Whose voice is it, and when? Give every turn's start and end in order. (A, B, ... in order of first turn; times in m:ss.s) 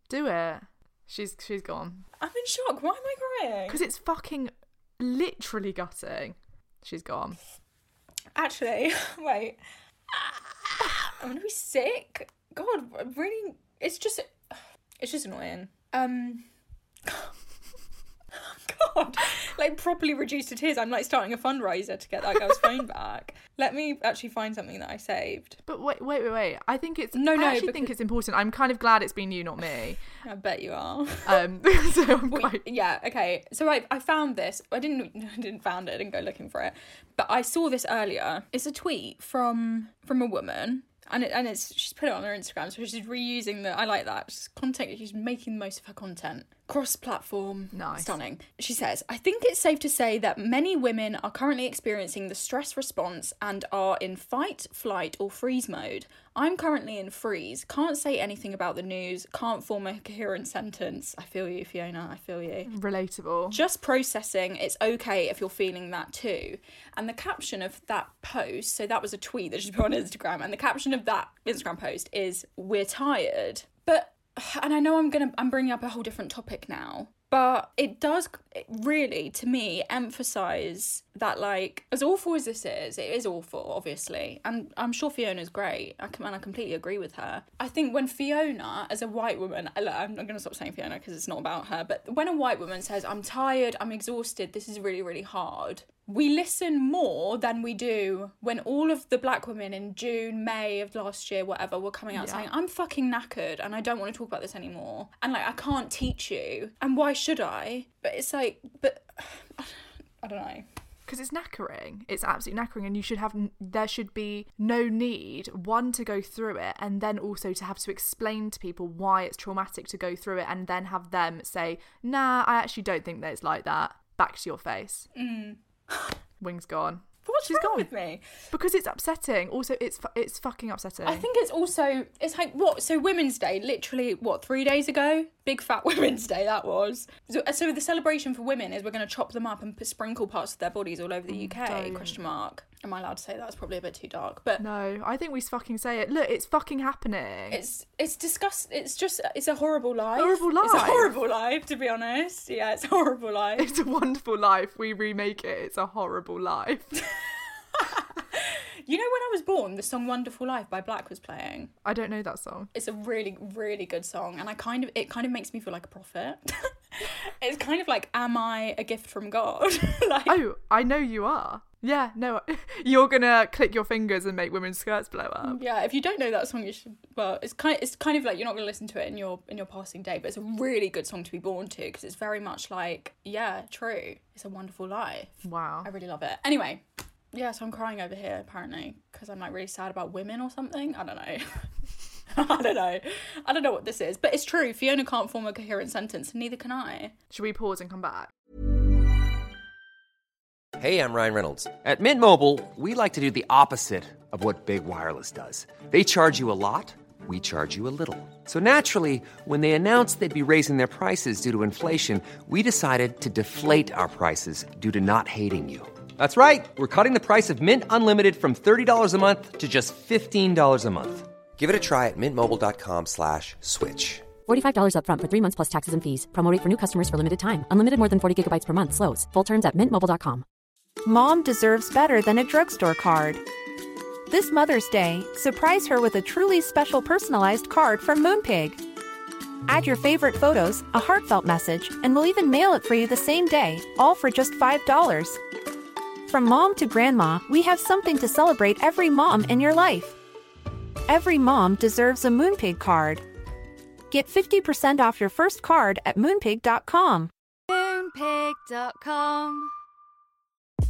0:00.1-0:02.0 A
0:02.2-0:03.8 B
0:03.7-0:07.4 A
0:08.4-0:09.6 B
0:10.1-0:16.5 B
0:17.1-0:17.3 B
0:18.3-0:25.6 B
0:25.7-0:30.0 A
0:27.1-0:27.9 B
0:30.2-0:31.4 B
0:31.3-0:32.6 A
0:32.3-1:02.7 B
0:47.7-0:48.1 A
1:02.7-1:03.6 A
1:03.5-1:50.7 B
1:42.1-1:42.5 A
1:51.1-2:05.1 A
2:05.2-2:06.2 B
2:06.4-2:07.9 A
2:07.2-2:08.2 B
2:08.5-2:11.3 A
2:11.0-2:24.6 B
2:21.3-2:22.2 A
2:24.6-2:27.6 A
2:27.5-2:33.7 B
2:30.2-2:31.1 A
2:33.6-2:36.9 A
2:37.0-2:41.7 B
2:41.8-2:42.7 A
2:42.7-2:50.4 B
2:50.3-2:55.6 A
2:55.4-3:11.7 B
3:05.4-3:05.9 A
3:12.3-3:17.1 B
3:17.3-3:18.3 A
3:20.8-3:44.3 C
3:44.5-3:50.4 D
3:51.0-3:53.4 E
3:54.3-3:58.8 E
3:59.7-4:05.4 E
4:06.3-4:10.2 E
4:11.1-4:13.3 E
4:14.1-4:17.3 E
4:17.7-4:19.7 F